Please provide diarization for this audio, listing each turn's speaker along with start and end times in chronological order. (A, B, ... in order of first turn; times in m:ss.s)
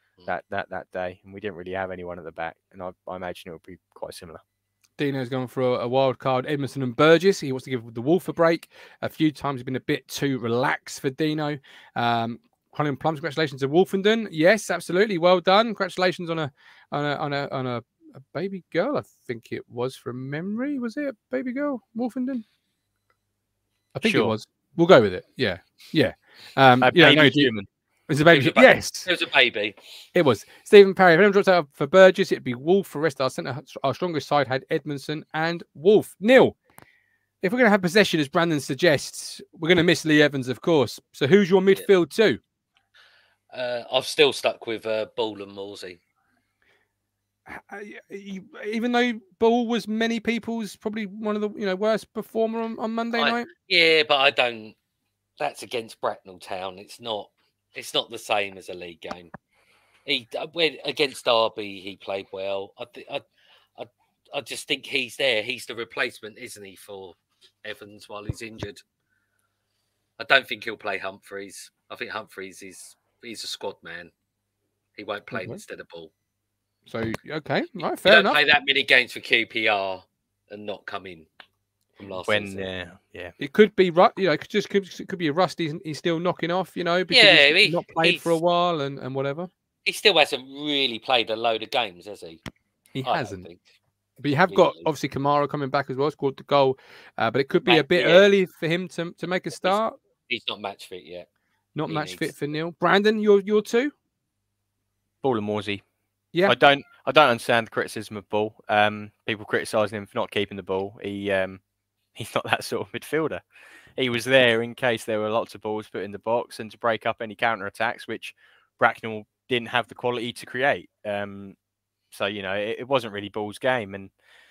0:00.3-0:04.4 A
0:05.0-0:22.4 B
0:24.0-0:27.5 B
0:24.0-0:24.4 A
0:26.8-0:27.7 A
0:28.1-0:29.1 B
0:28.3-0:29.8 C
0:30.2-0:36.6 B
0:37.4-0:42.4 B
0:43.5-0:46.0 C
0:47.5-0:53.5 B
0:53.2-0:54.8 C
0:55.4-0:59.3 C
1:00.1-1:03.2 C
1:03.8-1:08.8 C
1:10.2-1:14.1 C
1:15.0-1:16.1 C
1:15.3-1:15.6 B
1:16.9-1:18.4 B
1:18.0-1:21.3 C
1:22.0-1:22.7 C
1:22.3-1:23.3 A
1:23.4-1:29.5 B
1:27.1-1:28.4 C
1:29.8-1:32.4 C
1:33.0-1:33.5 B
1:33.1-1:33.6 C
1:34.2-1:40.0 B
1:34.3-1:34.9 C
1:37.6-1:38.3 C
1:39.6-1:41.3 C
1:41.8-1:43.9 B
1:41.9-1:42.4 C
1:45.2-1:45.8 A
1:46.4-1:51.6 A
1:52.2-1:53.4 A
1:54.0-2:01.6 A
2:02.1-2:04.1 A